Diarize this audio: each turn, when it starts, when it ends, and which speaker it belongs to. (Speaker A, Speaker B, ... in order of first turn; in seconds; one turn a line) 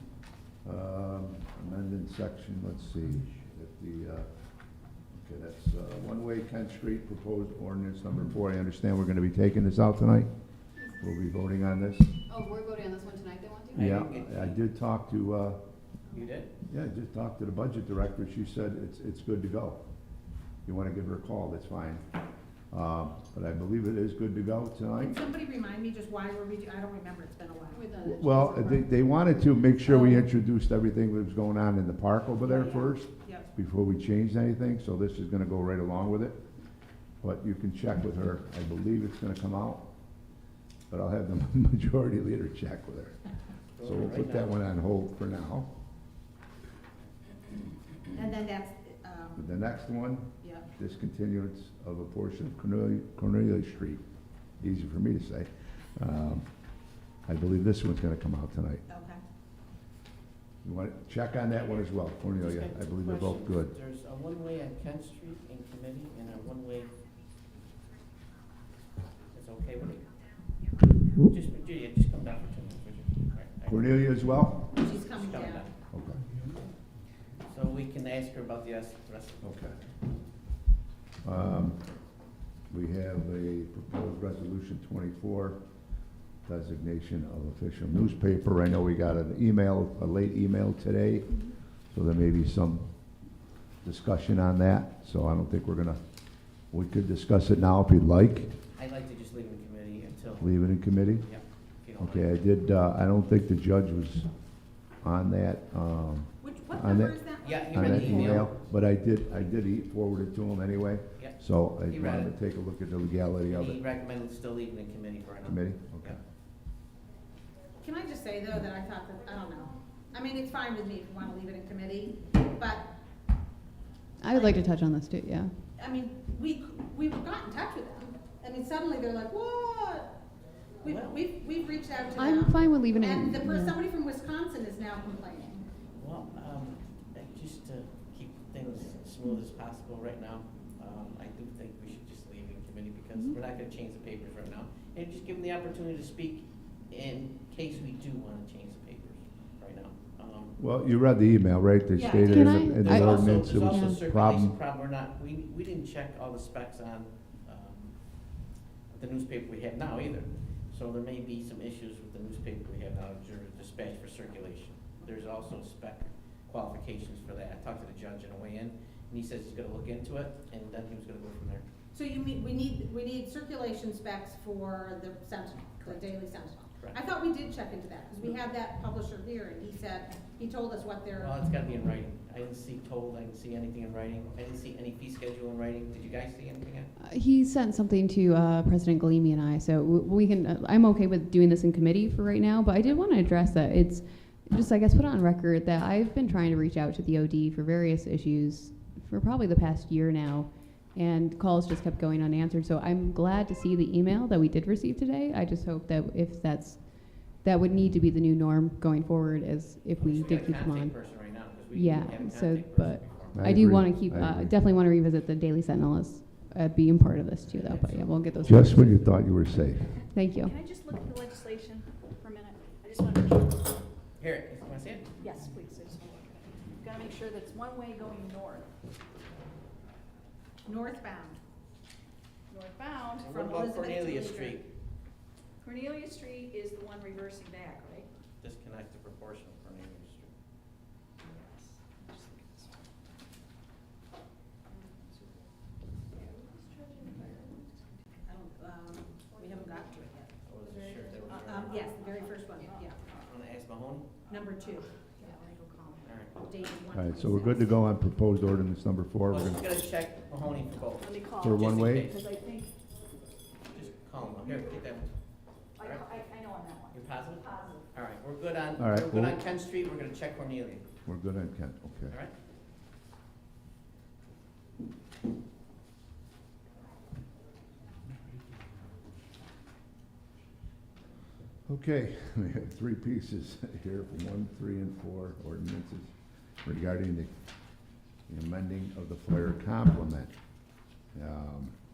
Speaker A: 0.6-4.3
Speaker A: 5.1-10.3
Speaker A: 11.0-12.1
Speaker B: 12.2-13.8
Speaker C: 13.7-14.6
Speaker A: 13.7-15.6
Speaker C: 16.1-16.5
Speaker A: 16.7-19.8
Speaker A: 20.6-22.0
Speaker A: 22.7-25.2
Speaker D: 24.9-27.9
Speaker B: 27.7-28.9
Speaker A: 28.0-36.4
Speaker D: 29.9-30.2
Speaker D: 32.4-33.5
Speaker A: 37.2-39.8
Speaker A: 40.9-43.2
Speaker C: 43.8-44.6
Speaker A: 43.8-45.7
Speaker D: 48.1-49.6
Speaker A: 49.4-54.0
Speaker D: 50.4-50.7
Speaker A: 54.6-56.5
Speaker A: 57.2-58.8
Speaker D: 58.9-59.2
Speaker A: 60.6-63.7
Speaker C: 62.4-66.9
Speaker C: 69.3-70.2
Speaker C: 71.2-75.7
Speaker A: 73.7-74.7
Speaker D: 74.8-75.7
Speaker A: 75.9-76.2
Speaker C: 77.5-79.6
Speaker A: 79.4-79.8
Speaker A: 81.2-81.8
Speaker A: 82.7-85.6
Speaker A: 86.4-92.8
Speaker A: 93.8-96.0
Speaker A: 96.7-98.5
Speaker C: 98.8-100.6
Speaker A: 100.4-101.2
Speaker C: 101.2-102.3
Speaker A: 102.0-104.3
Speaker A: 105.0-113.8
Speaker D: 106.4-108.4
Speaker C: 107.4-108.6
Speaker C: 111.2-112.3
Speaker C: 113.5-116.2
Speaker A: 115.4-116.2
Speaker D: 117.8-122.9
Speaker B: 124.2-125.5
Speaker D: 124.3-124.6
Speaker D: 125.8-130.2
Speaker D: 130.8-135.6
Speaker C: 130.8-131.2
Speaker B: 132.2-133.8
Speaker C: 135.9-150.6
Speaker A: 150.6-154.5
Speaker D: 151.9-152.5
Speaker B: 152.2-154.0
Speaker C: 152.8-171.6
Speaker D: 171.9-181.3
Speaker C: 181.2-186.9
Speaker B: 187.0-211.0
Speaker C: 210.0-213.5
Speaker B: 211.7-219.0
Speaker A: 213.3-214.5
Speaker C: 217.4-219.1
Speaker A: 218.4-220.0
Speaker B: 220.1-220.5
Speaker E: 220.4-223.8
Speaker C: 224.2-225.1
Speaker E: 225.2-228.7
Speaker D: 230.7-231.4
Speaker E: 232.5-233.6
Speaker C: 233.2-234.7
Speaker D: 233.3-234.5
Speaker E: 235.6-238.1
Speaker C: 238.4-240.3
Speaker E: 241.2-242.7
Speaker E: 244.7-245.6
Speaker E: 246.1-247.9
Speaker D: 248.2-250.3
Speaker C: 250.4-251.9
Speaker E: 251.2-253.1
Speaker D: 251.4-253.0
Speaker C: 253.1-254.2
Speaker D: 254.3-254.9
Speaker E: 255.2-256.1
Speaker C: 256.0-256.4
Speaker D: 256.4-257.8
Speaker A: 256.9-259.6
Speaker C: 259.3-262.2
Speaker E: 261.0-262.8
Speaker A: 261.4-262.2
Speaker C: 263.7-265.1
Speaker E: 264.4-264.8
Speaker C: 265.7-266.1
Speaker E: 265.8-267.8
Speaker C: 266.9-270.9
Speaker A: 268.8-269.4
Speaker A: 271.1-272.1
Speaker A: 281.6-286.1
Speaker A: 286.6-287.3
Speaker A: 288.3-290.3
Speaker A: 291.1-291.8